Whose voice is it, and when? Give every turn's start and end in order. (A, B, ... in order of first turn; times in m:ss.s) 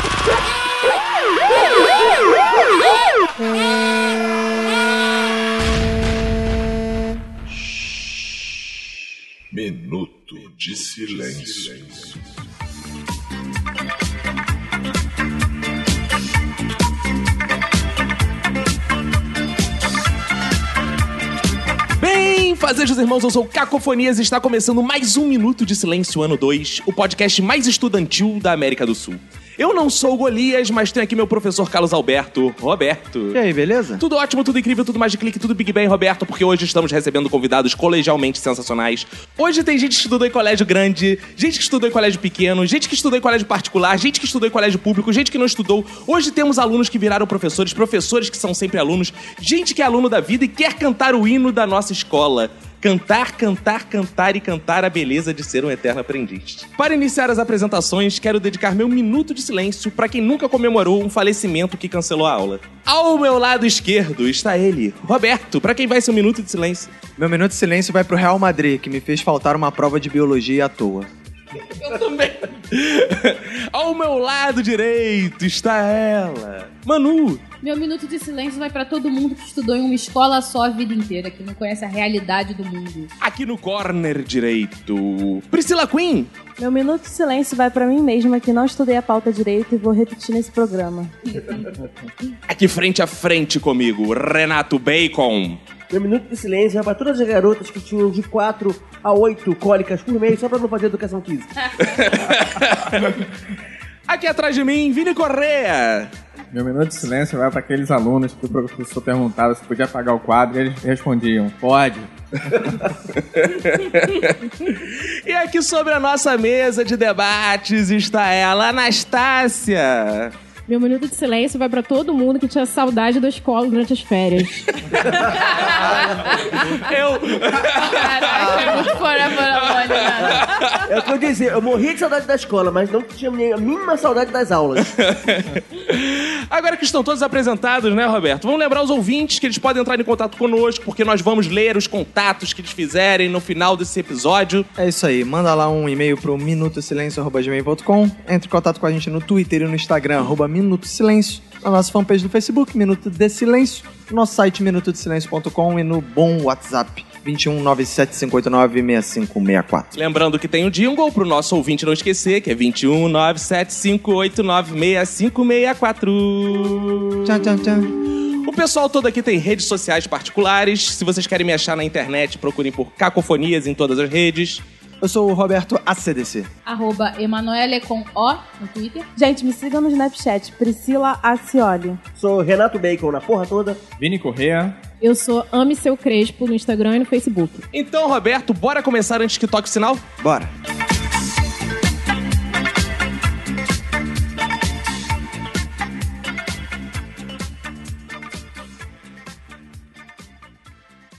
0:09.5-0:12.2 A
0:22.0-0:33.4 B
0:33.3-0:34.0 C
0:34.0-1:06.9 B
1:07.2-1:11.1 C
1:11.6-1:17.4 B
1:17.6-1:23.1 D
1:23.2-1:26.3 B
1:26.6-1:31.2 E
1:32.5-1:35.6 B
1:35.9-1:41.5 F
1:41.8-1:43.3 B
1:44.1-1:46.1 B
1:46.5-1:52.9 G
1:53.2-2:00.3 B
2:00.7-2:04.9 H
2:05.4-2:06.9 D
2:05.6-2:05.9 B
2:06.8-2:10.8 B
2:07.6-2:10.5 D
2:10.2-2:14.9 F
2:14.8-2:24.7 B
2:24.8-2:39.9 C
2:39.9-2:47.4 B
2:47.2-2:48.0 C
2:48.4-2:54.6 B
2:55.0-2:56.5 C
2:56.7-2:59.1 D
2:59.2-3:02.0 E
3:02.2-3:03.8 F
3:04.0-3:04.8 G
3:05.0-3:07.6 H
3:07.7-3:10.0 B
3:10.2-3:10.5 C